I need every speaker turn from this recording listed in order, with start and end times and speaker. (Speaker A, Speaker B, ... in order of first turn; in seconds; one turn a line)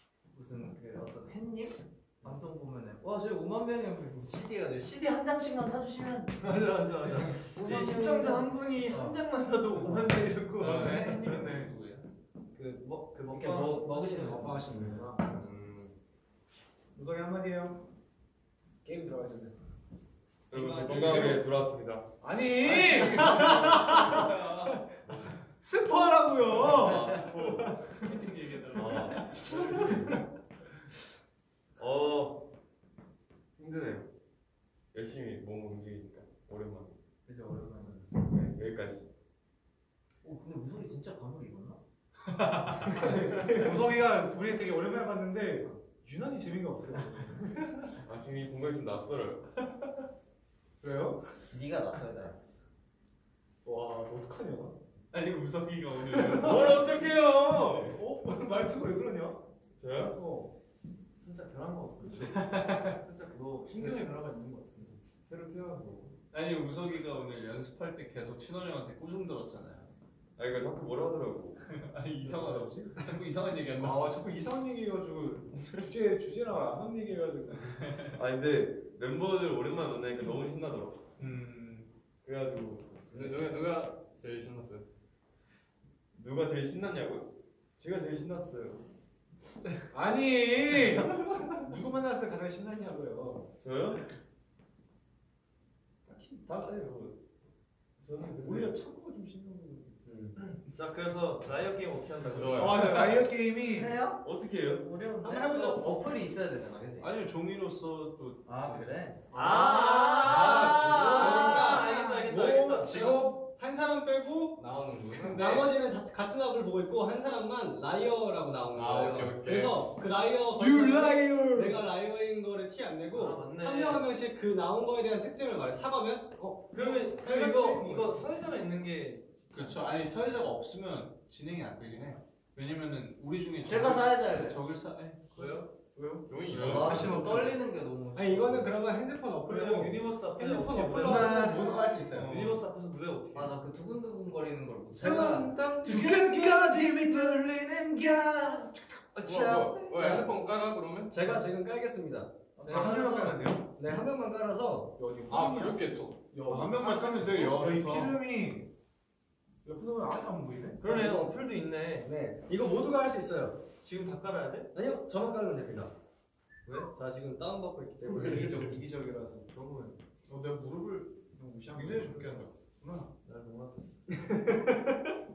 Speaker A: 0.3-6.4
Speaker B: 6.4-11.2
Speaker A: 7.3-9.2
Speaker C: 10.6-12.1
Speaker D: 10.6-11.7
Speaker B: 12.5-15.0
Speaker A: 13.3-14.6
Speaker D: 14.1-15.4
Speaker E: 15.2-15.9
Speaker D: 16.9-17.8
Speaker D: 18.8-19.5
Speaker E: 20.5-22.1
Speaker F: 20.5-21.4
Speaker D: 20.8-21.4
Speaker D: 22.2-24.9
Speaker C: 22.6-24.8
Speaker D: 25.6-28.1
Speaker E: 26.6-27.7
Speaker C: 27.9-29.9
Speaker E: 28.7-30.1
Speaker D: 29.2-30.1
Speaker E: 31.8-32.4
Speaker E: 33.6-34.1
Speaker E: 34.9-36.9
Speaker A: 37.3-38.1
Speaker E: 38.1-39.1
Speaker A: 40.2-41.8
Speaker C: 42.4-42.9
Speaker D: 42.9-47.4
Speaker E: 48.0-49.5
Speaker D: 50.8-51.2
Speaker A: 51.5-52.4
Speaker D: 53.6-54.7
Speaker C: 55.1-56.9
Speaker E: 56.3-58.0
Speaker D: 56.5-59.4
Speaker E: 59.8-60.1
Speaker D: 59.9-60.5
Speaker B: 61.2-65.0
Speaker C: 62.2-63.0
Speaker E: 63.7-64.1
Speaker E: 65.2-66.2
Speaker C: 66.3-69.9
Speaker E: 70.4-71.6
Speaker C: 71.6-74.1
Speaker D: 72.3-72.8
Speaker D: 73.8-77.8
Speaker C: 77.8-78.1
Speaker E: 78.1-81.0
Speaker C: 81.2-81.9
Speaker E: 82.2-83.5
Speaker G: 83.1-84.8
Speaker E: 86.1-88.8
Speaker D: 89.9-93.5
Speaker E: 93.6-94.0
Speaker E: 96.1-97.2
Speaker E: 98.0-98.7
Speaker D: 98.4-99.9
Speaker F: 100.0-100.4
Speaker B: 100.4-103.2
Speaker G: 102.2-103.1
Speaker D: 102.5-103.9
Speaker A: 103.6-104.2
Speaker E: 104.2-104.9
Speaker A: 104.8-107.1
Speaker F: 105.2-105.8
Speaker C: 107.0-108.9
Speaker A: 108.5-111.6
Speaker B: 109.3-113.3
Speaker D: 109.3-112.2
Speaker G: 110.2-111.8
Speaker C: 110.3-111.5
Speaker F: 111.0-128.2
Speaker G: 112.8-113.4
Speaker G: 114.6-115.5
Speaker C: 115.2-115.7
Speaker G: 118.7-119.8
Speaker D: 120.5-121.8
Speaker B: 123.1-124.1
Speaker B: 126.7-129.8
Speaker C: 129.5-135.6
Speaker A: 133.6-134.6
Speaker B: 135.3-135.7
Speaker D: 135.9-137.6
Speaker G: 136.3-137.3
Speaker A: 136.5-138.8
Speaker F: 138.1-142.6
Speaker B: 139.5-143.7
Speaker A: 141.1-141.9
Speaker D: 141.1-141.6
Speaker A: 143.3-145.5
Speaker F: 144.9-145.9
Speaker D: 145.8-149.1
Speaker C: 145.8-147.5
Speaker G: 149.2-151.3
Speaker F: 149.8-150.3
Speaker F: 151.1-154.9
Speaker C: 152.6-153.0
Speaker D: 152.6-153.6
Speaker D: 155.0-158.7
Speaker G: 155.3-156.2
Speaker C: 156.5-158.1
Speaker D: 159.6-160.9
Speaker B: 160.8-162.1
Speaker F: 160.8-161.3
Speaker F: 162.0-163.7
Speaker B: 163.8-164.7
Speaker F: 164.7-165.9
Speaker F: 166.9-168.8
Speaker D: 168.0-169.5
Speaker B: 168.2-168.8
Speaker B: 169.5-170.0
Speaker D: 170.3-173.1
Speaker B: 171.8-172.4
Speaker B: 173.2-174.1
Speaker F: 174.1-174.7